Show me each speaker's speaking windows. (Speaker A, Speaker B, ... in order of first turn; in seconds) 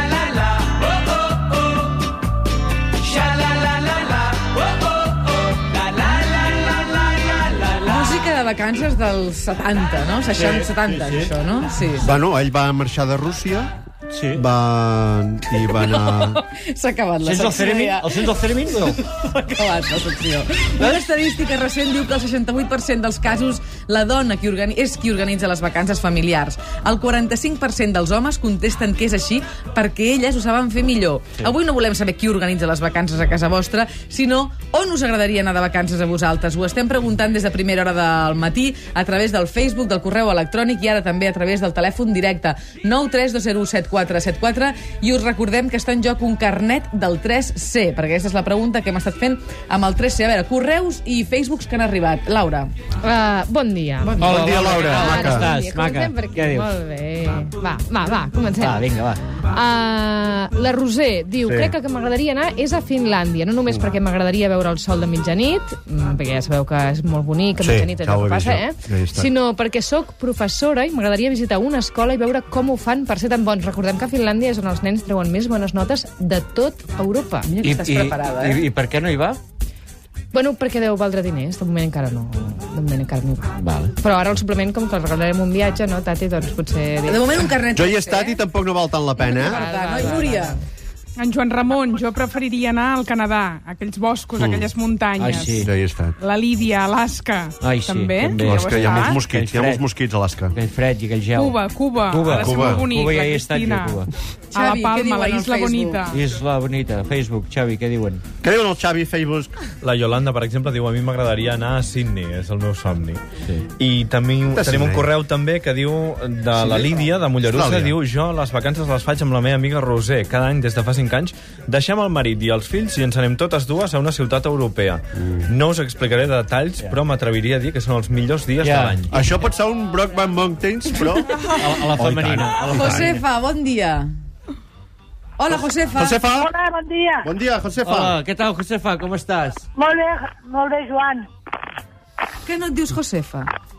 Speaker A: 7.7-12.2, 15.5-52.7, 54.1-55.4, 77.4-78.7, 87.1-88.4, 89.2-90.6, 104.5-106.1, 132.7-134.1, 135.4-136.2, 142.4-143.5
Speaker B: 10.3-11.3, 14.1-14.4, 17.2-19.0, 54.2-56.8, 58.6-59.2, 77.6-79.4, 83.6-83.9, 95.2-95.7, 97.6-99.9, 100.5-104.1, 106.1-108.2, 128.6-129.1, 131.5-133.2, 137.8-139.7
Speaker C: 12.0-13.7, 14.3-16.4, 54.2-55.5, 61.5-61.8, 67.6-69.3, 87.7-89.7, 94.4-94.7, 95.5-96.2, 98.3-100.6, 102.4-102.9, 108.4-109.5, 114.5-115.1, 116.5-118.0, 125.2-125.5, 129.1-133.2, 135.9-136.5, 137.2-138.2
Speaker D: 53.0-54.3, 54.8-77.5, 80.3-87.4, 89.2-90.6
Speaker E: 91.2-95.6, 96.2-99.2, 101.3-104.0, 104.5-106.2
Speaker F: 109.8-113.2, 113.8-129.1
Speaker G: 136.3-137.3, 139.8-141.3